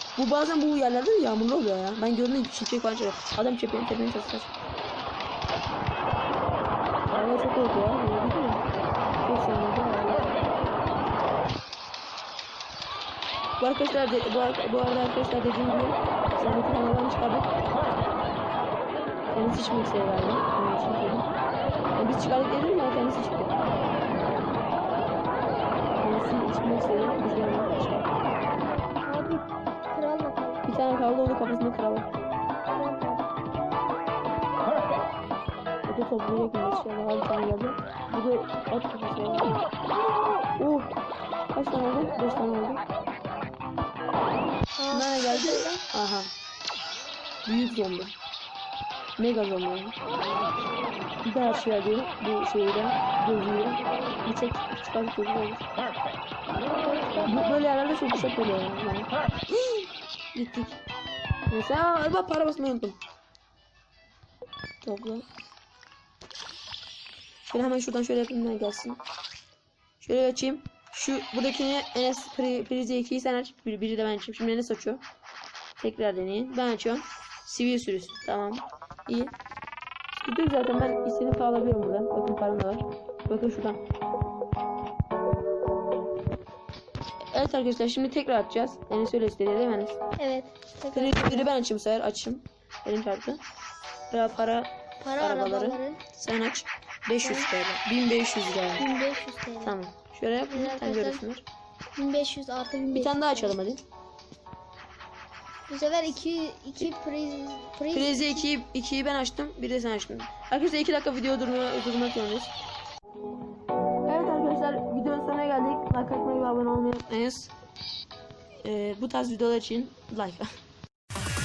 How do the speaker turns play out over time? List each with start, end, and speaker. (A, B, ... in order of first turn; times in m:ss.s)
0:00.2-0:04.5 A
0:07.1-0:08.7 A
0:09.2-0:10.4 A
0:13.6-0:17.5 A
0:19.3-0:21.3 A
0:22.0-0:23.6 A
0:26.0-0:28.1 A
0:29.0-0:30.6 B
0:30.6-0:32.1 A
0:32.7-0:33.3 B
0:35.9-0:39.6 A
0:40.6-0:40.9 A
0:41.5-0:42.8 A
0:44.8-0:45.8 B
0:44.9-0:46.3 A
0:47.4-0:48.1 A
0:49.2-0:50.0 A
0:51.2-0:55.6 A
0:57.2-1:00.8 A
1:01.5-1:03.0 A
1:04.8-1:05.3 A
1:07.5-1:09.0 A
1:10.0-1:15.0 A
1:15.8-1:19.3 A
1:20.1-1:23.8 A
1:27.3-1:30.0 A
1:30.2-1:31.5 B
1:30.9-1:33.4 A
1:34.1-1:38.8 A
1:35.0-1:36.0 B
1:37.2-1:37.5 B
1:38.8-1:39.8 B
1:39.6-1:41.4 A
1:40.5-1:41.2 B
1:42.0-1:43.6 B
1:42.9-1:43.8 A
1:45.7-1:48.5 B
1:47.9-1:52.5 A
1:54.1-1:57.5 A
1:58.6-2:00.5 A